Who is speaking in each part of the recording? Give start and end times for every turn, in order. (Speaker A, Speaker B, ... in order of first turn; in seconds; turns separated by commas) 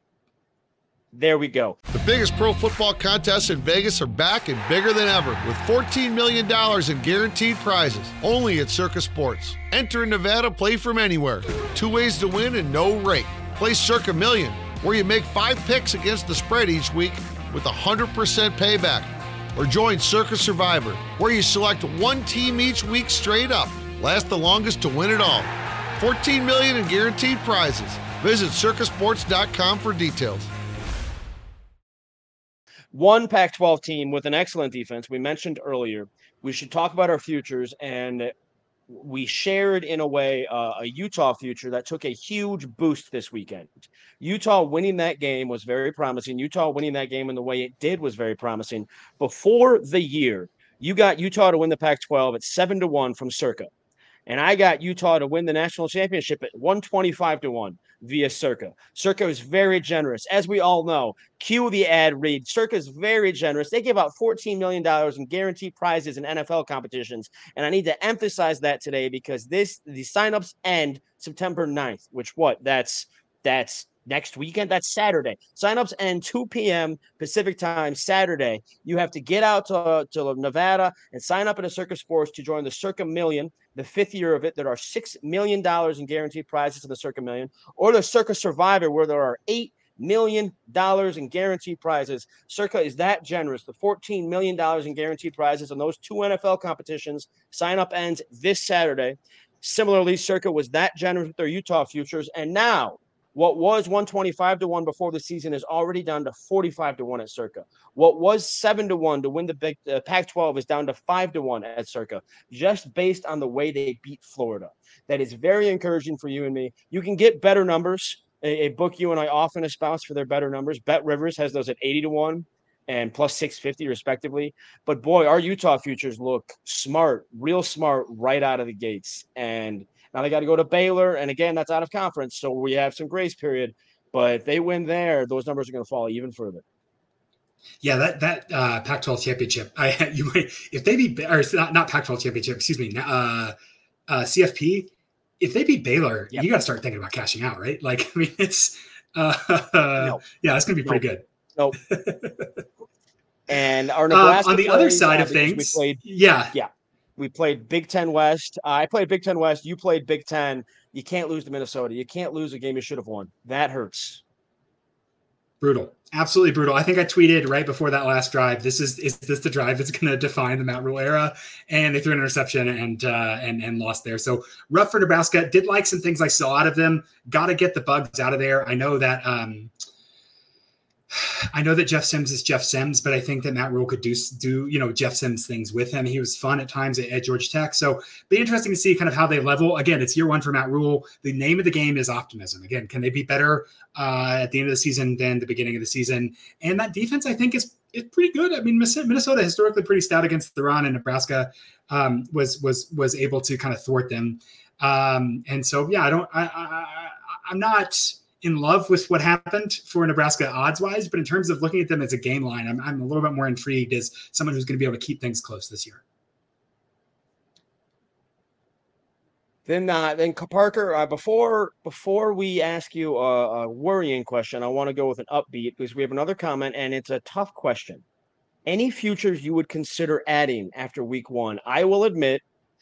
Speaker A: 1.1-1.8, Speaker B: 1.9-30.5, Speaker A: 32.9-38.3, Speaker A: 38.9-53.7, Speaker A: 54.3-136.6, Speaker C: 137.8-143.6, Speaker C: 144.1-151.2, Speaker A: 150.0-150.2, Speaker C: 151.8-152.6, Speaker A: 153.5-156.0, Speaker C: 154.1-156.5, Speaker A: 156.5-164.2, Speaker C: 165.6-179.7, Speaker C: 181.1-216.0, Speaker A: 219.7-228.0, Speaker A: 228.7-232.4